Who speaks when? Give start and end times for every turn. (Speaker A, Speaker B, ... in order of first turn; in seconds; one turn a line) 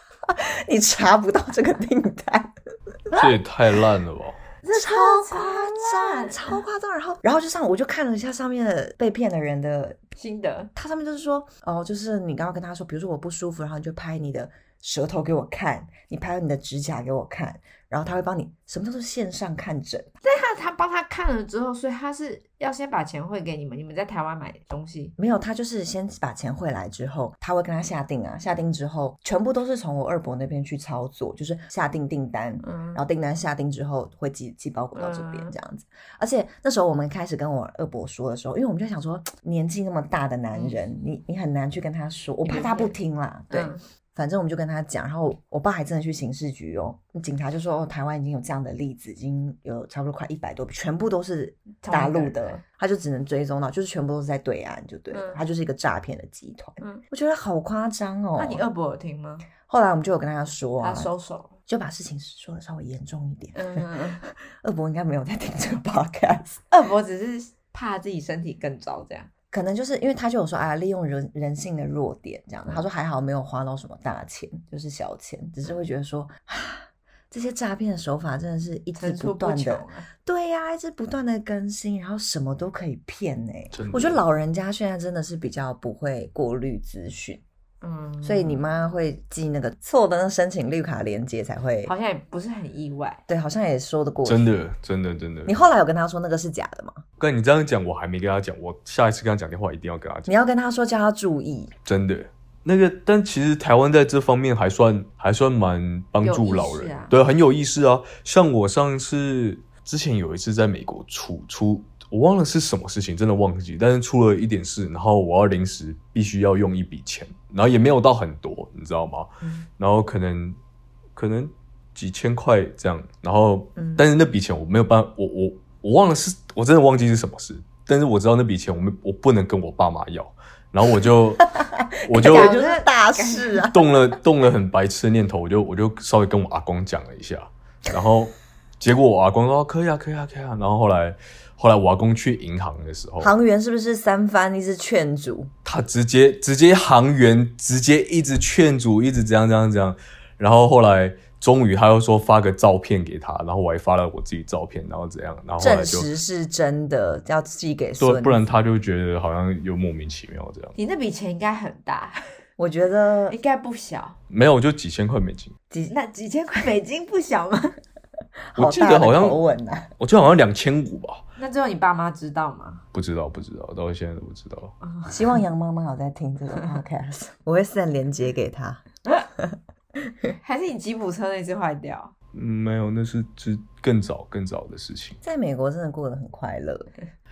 Speaker A: 0.3-3.3
Speaker B: 3.1-4.4
Speaker C: 4.6-6.5
Speaker A: 4.7-10.0
Speaker C: 10.2-10.7
Speaker A: 10.8-20.1
Speaker C: 20.2-25.1
Speaker A: 25.2-58.6
Speaker C: 32.6-33.0
Speaker C: 34.9-35.5
Speaker C: 40.5-40.8
Speaker C: 42.4-42.9
Speaker C: 43.5-43.8
Speaker C: 51.8-52.6
Speaker C: 55.1-55.4
Speaker C: 58.4-59.5
Speaker A: 59.6-61.1
Speaker C: 60.8-61.5
Speaker A: 61.7-66.6
Speaker C: 63.5-64.2
Speaker C: 66.7-69.3
Speaker A: 69.5-87.4
Speaker C: 79.0-80.1
Speaker B: 83.7-84.2
Speaker C: 87.8-88.6
Speaker A: 88.2-91.9
Speaker C: 91.8-93.2
Speaker A: 93.3-94.5
Speaker B: 94.2-95.6
Speaker A: 95.5-97.0
Speaker B: 97.2-100.3
Speaker A: 100.3-101.7
Speaker B: 101.9-120.6
Speaker C: 106.2-107.1
Speaker B: 121.2-131.5
Speaker A: 131.4-133.9
Speaker B: 132.1-132.6
Speaker C: 132.2-133.7
Speaker B: 133.7-143.3
Speaker A: 143.2-145.5
Speaker B: 145.7-156.1
Speaker A: 155.6-158.5
Speaker B: 158.0-160.8
Speaker C: 160.8-162.2
Speaker A: 162.6-163.4
Speaker C: 163.3-164.2
Speaker B: 164.3-165.5
Speaker C: 165.9-167.8
Speaker A: 168.5-169.9
Speaker B: 168.6-169.4
Speaker B: 170.0-171.2
Speaker C: 171.4-172.8
Speaker B: 172.9-174.8
Speaker C: 174.8-175.2
Speaker A: 175.1-180.1
Speaker C: 180.4-182.1
Speaker B: 182.3-185.2
Speaker A: 185.2-186.9